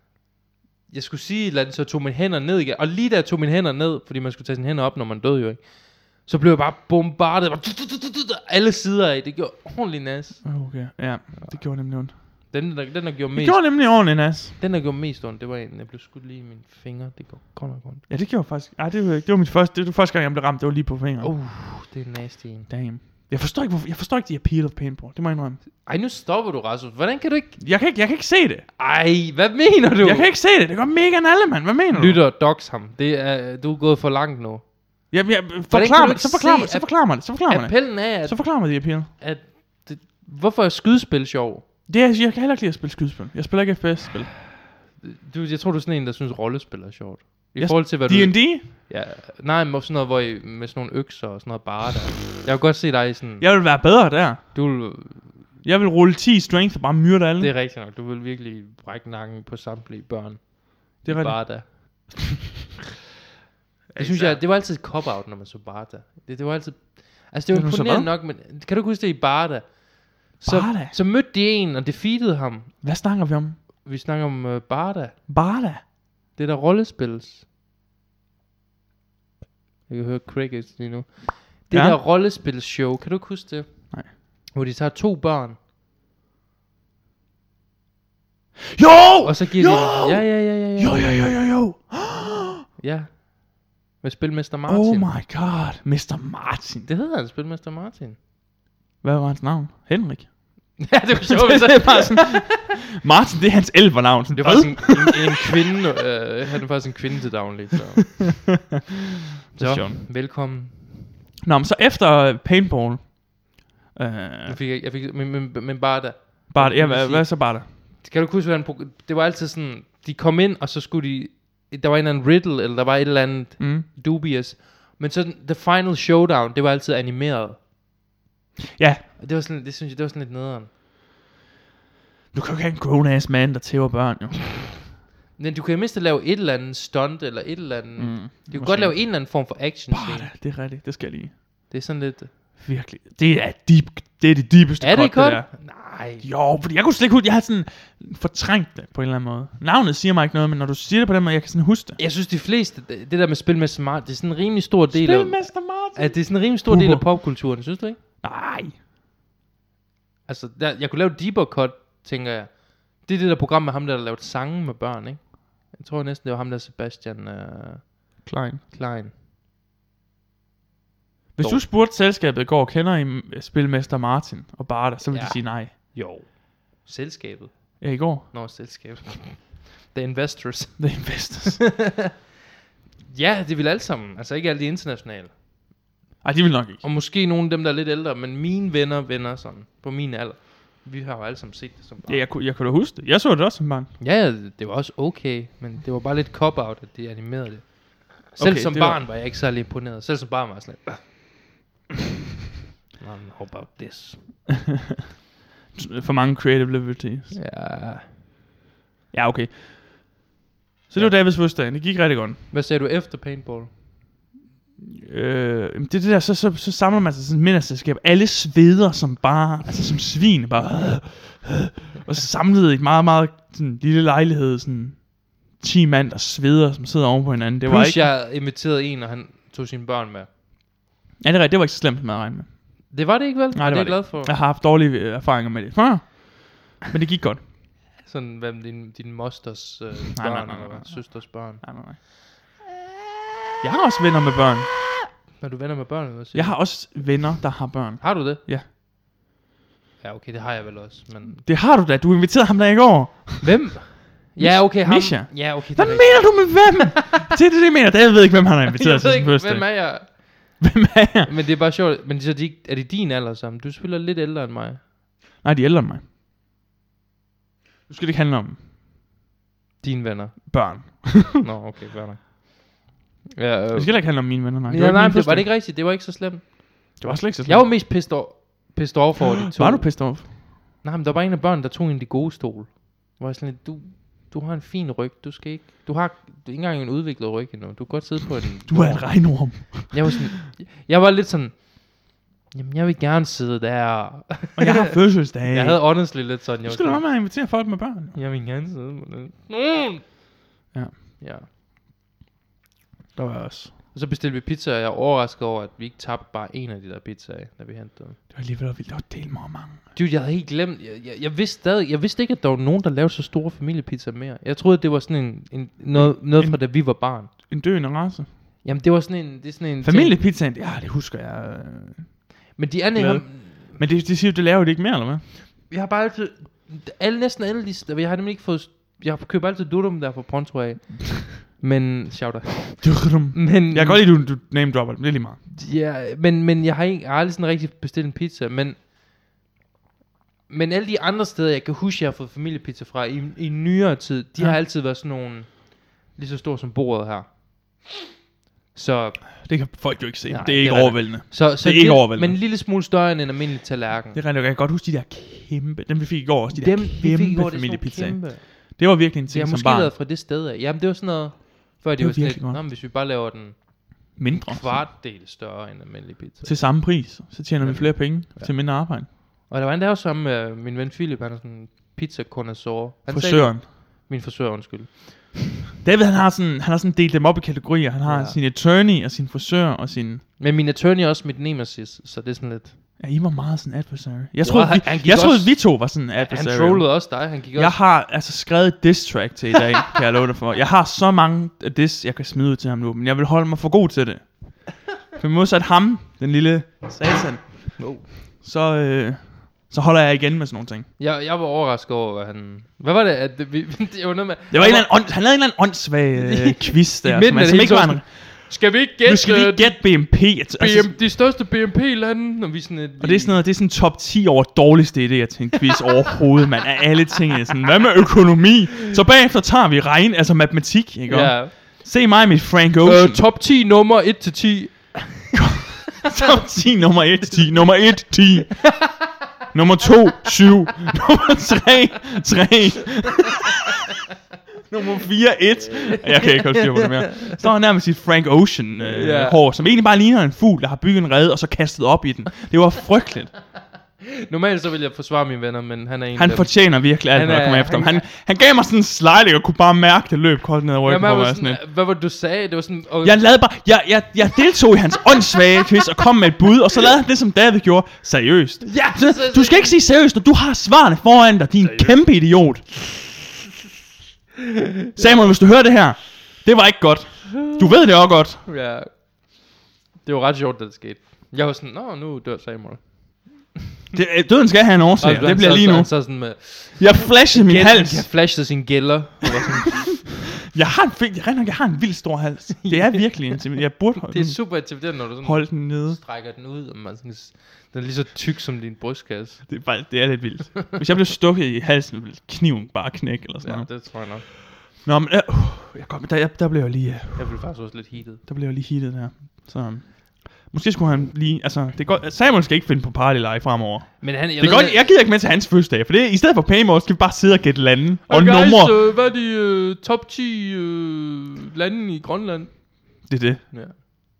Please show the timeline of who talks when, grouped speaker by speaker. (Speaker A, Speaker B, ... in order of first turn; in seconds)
Speaker A: 0.9-10.8, 11.3-18.1, 21.2-22.7, 25.8-27.6, 28.8-30.3, 31.9-34.8, 35.7-41.6, 45.0-55.5, 57.4-62.1, 64.0-72.8, 73.8-75.3, 76.3-77.4, 79.9-85.6, 89.2-91.2, 92.8-95.1, 96.8-98.2, 100.8-102.5, 104.3-108.5, 109.5-111.1, 114.5-127.6, 129.2-130.7, 135.4-140.3, 141.7-142.3, 144.8-146.3, 152.0-158.0, 160.3-169.1, 171.4-171.6, 175.1-182.1, 183.1-185.3, 186.8-192.2, 194.0-201.2, 203.0-204.4, 207.3-208.1, 210.9-211.2, 212.5-213.8, 227.6-230.3, 232.9-234.3, 238.0-241.7, 245.4-246.7, 248.0-248.4, 250.0-251.4, 253.4-257.0, 258.7-260.6, 261.2-264.8, 269.8-300.1, 301.2-301.5, 303.9-308.2, 309.9-317.3, 318.6-320.2, 322.6-323.7, 325.7-334.1, 335.5-338.8, 340.5-347.4, 348.7-354.2, 356.5-375.5, 378.0-378.4, 380.4-382.8, 384.4-387.8, 397.8-398.1, 401.0-404.9, 406.1-413.4, 421.1-421.8, 422.8-425.6, 435.9-437.3, 438.8-439.4, 444.0-448.0, 450.8-453.2, 458.6-459.8, 461.6-462.2, 464.9-465.3, 468.4-469.4, 470.0-473.5, 475.0-480.0, 482.6-489.9, 493.4-494.3, 497.1-498.2, 504.0-504.9, 508.1-513.8
Speaker B: 10.4-12.2, 13.3-14.5, 18.1-21.3, 22.7-25.6, 27.6-28.6, 30.0-32.2, 35.1-39.1, 41.9-44.4, 47.6-48.6, 53.4-54.6, 55.6-57.5, 61.0-61.9, 63.9-64.4, 67.5-68.1, 70.4-70.9, 72.8-73.6, 75.3-75.8, 81.7-82.0, 88.7-92.6, 94.7-96.9, 99.0-105.4, 109.5-110.0, 111.4-114.6, 116.5-117.7, 123.6-123.8, 128.8-129.1, 132.3-134.9, 138.0-141.4, 142.6-152.0, 154.9-157.1, 158.2-158.8, 168.2-168.6, 171.3-175.7, 177.8-178.3, 180.8-181.7, 186.2-186.8, 192.0-193.9, 198.4-199.1, 205.7-207.4, 209.1-209.6, 210.9-212.4, 214.8-228.1, 231.2-232.9, 233.5-237.4, 240.1-242.0, 243.6-244.8, 246.3-248.7, 251.4-261.3, 265.4-266.0, 267.9-268.6, 270.5-271.4, 273.7-275.5, 277.0-277.7, 279.4-280.3, 288.6-290.2, 294.6-298.2, 303.1-303.7, 308.3-309.8, 315.9-318.3, 319.8-322.3, 322.9-325.2, 332.8-335.4, 349.4-352.4, 354.1-359.9, 362.0-362.6, 364.1-364.9, 366.4-369.1, 373.1-373.6, 375.8-380.2, 383.0-400.9, 404.5-410.9, 413.0-423.2, 425.3-429.0, 429.5-433.6, 434.7-443.4, 446.1-451.6, 453.0-462.8, 464.9-468.4, 473.9-478.1, 480.5-486.0, 489.5-508.8, 513.0-513.8